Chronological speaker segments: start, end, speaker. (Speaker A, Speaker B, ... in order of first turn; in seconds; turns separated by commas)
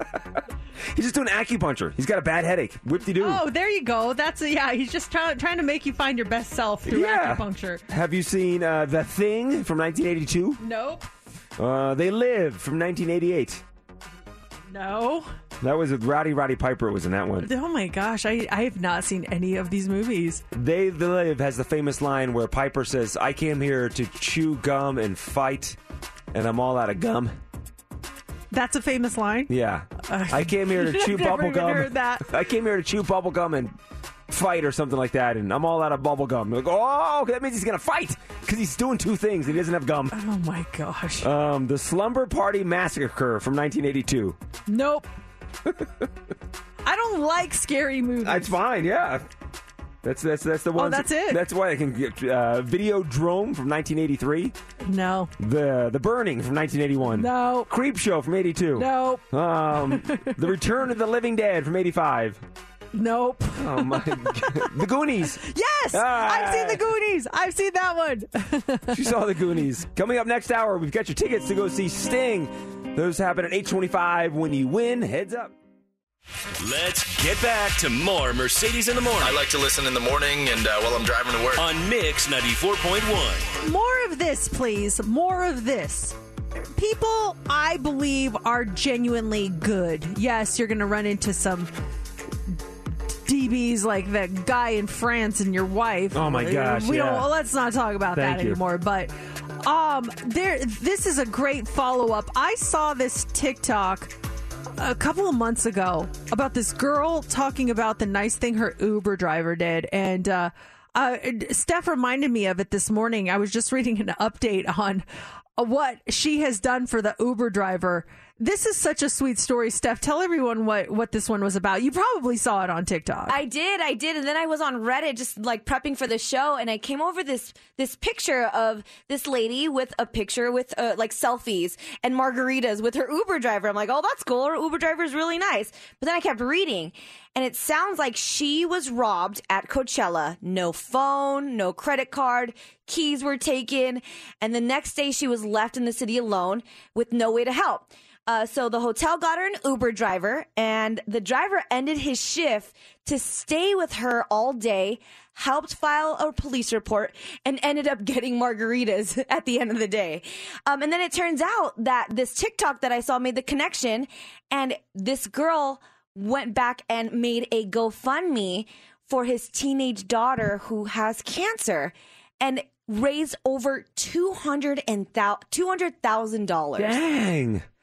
Speaker A: 0.9-3.4, Speaker B: 3.2-7.8, Speaker A: 6.9-10.6, Speaker B: 10.6-11.1, Speaker A: 11.6-13.6, Speaker B: 14.7-15.3, Speaker A: 15.6-17.5, Speaker B: 17.4-20.4, Speaker A: 20.5-25.8, Speaker A: 26.3-27.4, Speaker B: 28.5-29.5, Speaker A: 29.5-33.8, Speaker B: 30.1-32.3, Speaker A: 34.3-40.1, Speaker B: 40.1-41.3, Speaker A: 41.2-44.4, Speaker B: 44.7-45.1, Speaker A: 45.7-46.0, Speaker B: 46.9-48.6, Speaker A: 48.2-49.2, Speaker A: 50.0-54.5, Speaker B: 50.8-51.4, Speaker B: 54.8-55.3, Speaker A: 55.4-62.4, Speaker B: 57.2-57.7, Speaker B: 58.8-59.2, Speaker B: 59.9-60.5, Speaker B: 62.9-64.8, Speaker A: 63.6-65.4, Speaker B: 65.3-69.0, Speaker A: 65.9-66.8, Speaker A: 68.9-75.5, Speaker C: 76.6-79.5, Speaker D: 79.2-81.7, Speaker C: 81.6-83.5, Speaker B: 83.6-86.2, Speaker B: 86.8-91.7, Speaker B: 93.2-104.1, Speaker A: 96.1-97.3, Speaker A: 98.1-98.6, Speaker B: 104.8-115.0, Speaker B: 115.6-123.4, Speaker E: 123.3-177.0, Speaker A: 176.8-177.7